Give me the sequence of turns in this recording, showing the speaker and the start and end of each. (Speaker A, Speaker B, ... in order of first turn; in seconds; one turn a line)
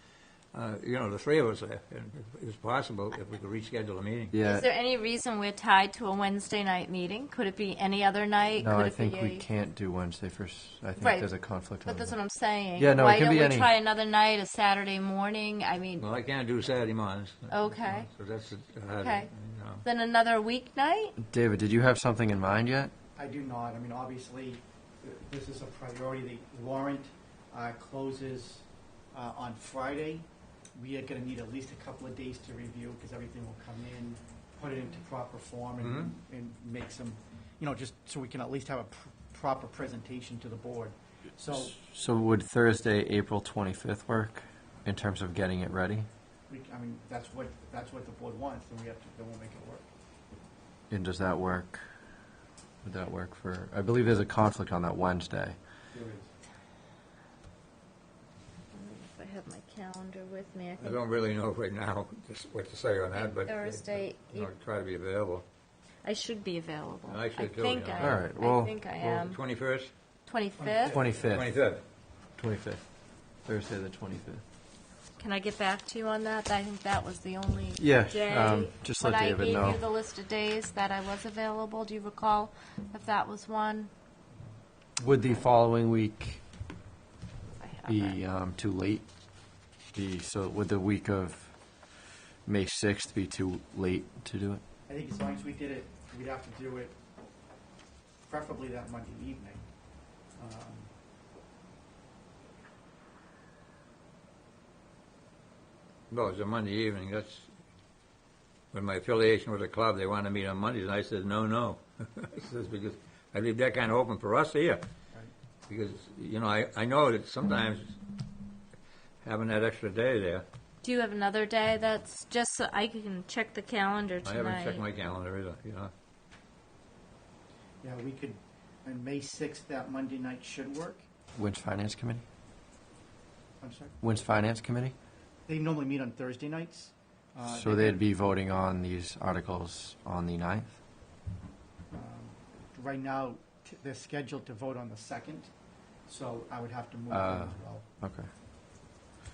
Speaker A: 0.5-4.3
Speaker B: 4.3-4.7
Speaker C: 4.4-9.4
Speaker B: 8.6-12.1
Speaker C: 11.0-16.1
Speaker B: 12.8-13.7
Speaker A: 16.0-19.8
Speaker C: 17.5-18.1
Speaker C: 19.0-19.3
Speaker C: 19.8-21.1
Speaker B: 21.2-22.9
Speaker D: 23.2-41.8
Speaker A: 35.8-36.1
Speaker B: 41.5-46.1
Speaker D: 46.5-49.9
Speaker B: 50.9-51.8
Speaker B: 52.8-55.6
Speaker D: 55.9-56.3
Speaker C: 58.7-61.0
Speaker A: 60.8-65.5
Speaker C: 63.1-64.5
Speaker C: 66.0-69.4
Speaker A: 67.1-68.2
Speaker B: 68.0-68.7
Speaker A: 69.0-69.9
Speaker C: 70.3-71.0
Speaker D: 70.6-71.3
Speaker B: 71.0-71.5
Speaker A: 71.1-71.8
Speaker B: 72.4-72.8
Speaker B: 73.4-74.4
Speaker C: 75.2-83.9
Speaker B: 77.8-79.8
Speaker B: 85.0-86.4
Speaker C: 87.6-88.2
Speaker B: 87.9-89.1
Speaker B: 89.9-91.6
Speaker B: 92.4-94.6
Speaker D: 94.9-96.9
Speaker D: 98.3-99.7
Speaker D: 100.4-100.9
Speaker A: 106.1-107.5
Speaker A: 108.7-114.8
Speaker A: 115.7-118.0
Speaker A: 119.2-120.5
Speaker C: 120.8-124.8
Speaker A: 124.2-125.9
Speaker D: 127.8-131.1
Speaker B: 131.3-132.2
Speaker D: 133.6-133.9
Speaker B: 134.0-134.9
Speaker D: 135.5-138.0
Speaker B: 137.5-140.8
Speaker D: 141.9-145.5
Speaker D: 146.1-147.8
Speaker B: 147.1-148.3